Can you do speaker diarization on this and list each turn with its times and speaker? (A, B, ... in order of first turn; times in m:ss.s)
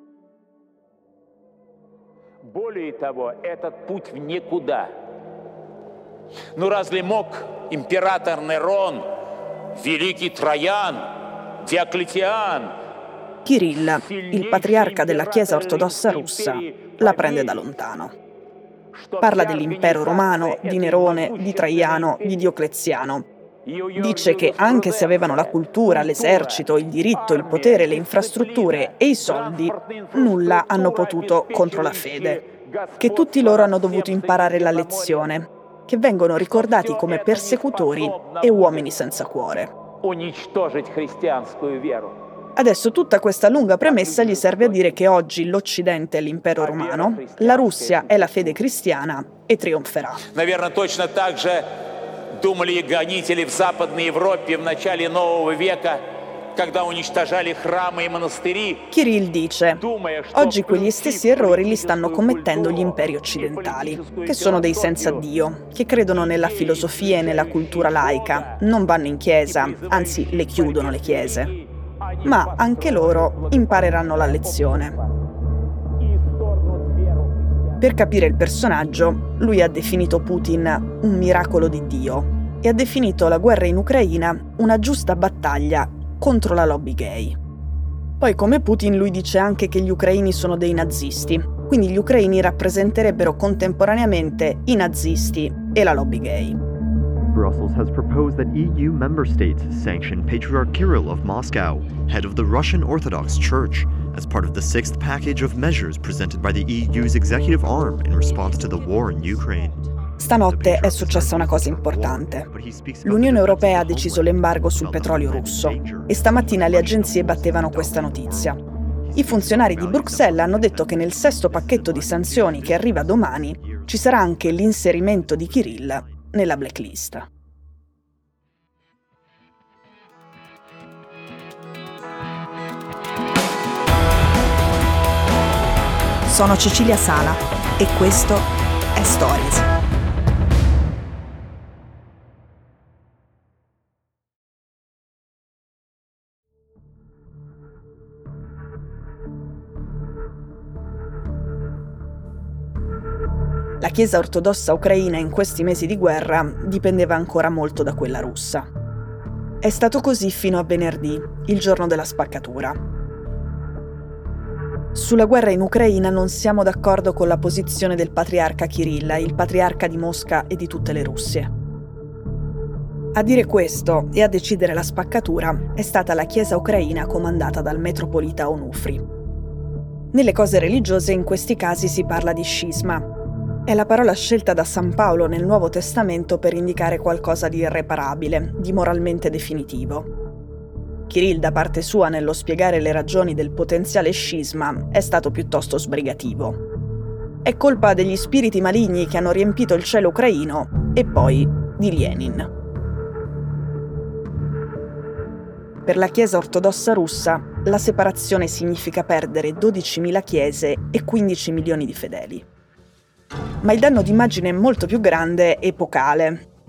0:02.4-0:05.1 A
0:06.6-0:09.1 A
0:09.7-0:12.7 A
0:13.4-0:18.1 B
0:14.0-0:17.6 A
0:18.9-0:22.5 A
0:19.2-0:23.3 B
0:23.7-0:35.3 A
0:24.0-0:32.4 B
0:33.0-0:39.7 B
0:36.5-0:38.9 A
0:40.0-0:42.2 A
0:42.6-0:50.3 B
0:43.8-0:45.0 A
0:46.6-0:48.5 A
0:50.3-0:58.9 A
0:58.9-1:11.5 B
0:59.8-1:05.2 A
1:06.1-1:08.6 A
1:09.5-1:15.1 A
1:12.2-1:15.0 B
1:16.0-1:17.8 A
1:17.8-1:27.4 B
1:28.2-1:36.6 B
1:37.3-2:06.2 C
1:50.2-1:52.5 B
1:53.0-1:58.6 B
1:59.2-2:07.3 B
2:16.2-2:19.7 B
2:33.8-2:38.7 B
2:39.6-2:42.8 B
2:44.9-2:51.5 B
2:53.1-2:59.0 B
3:00.1-3:03.1 B
3:03.7-3:10.1 B
3:11.1-3:16.6 B
3:17.4-3:22.5 B
3:25.8-3:32.5 B
3:33.6-3:36.5 B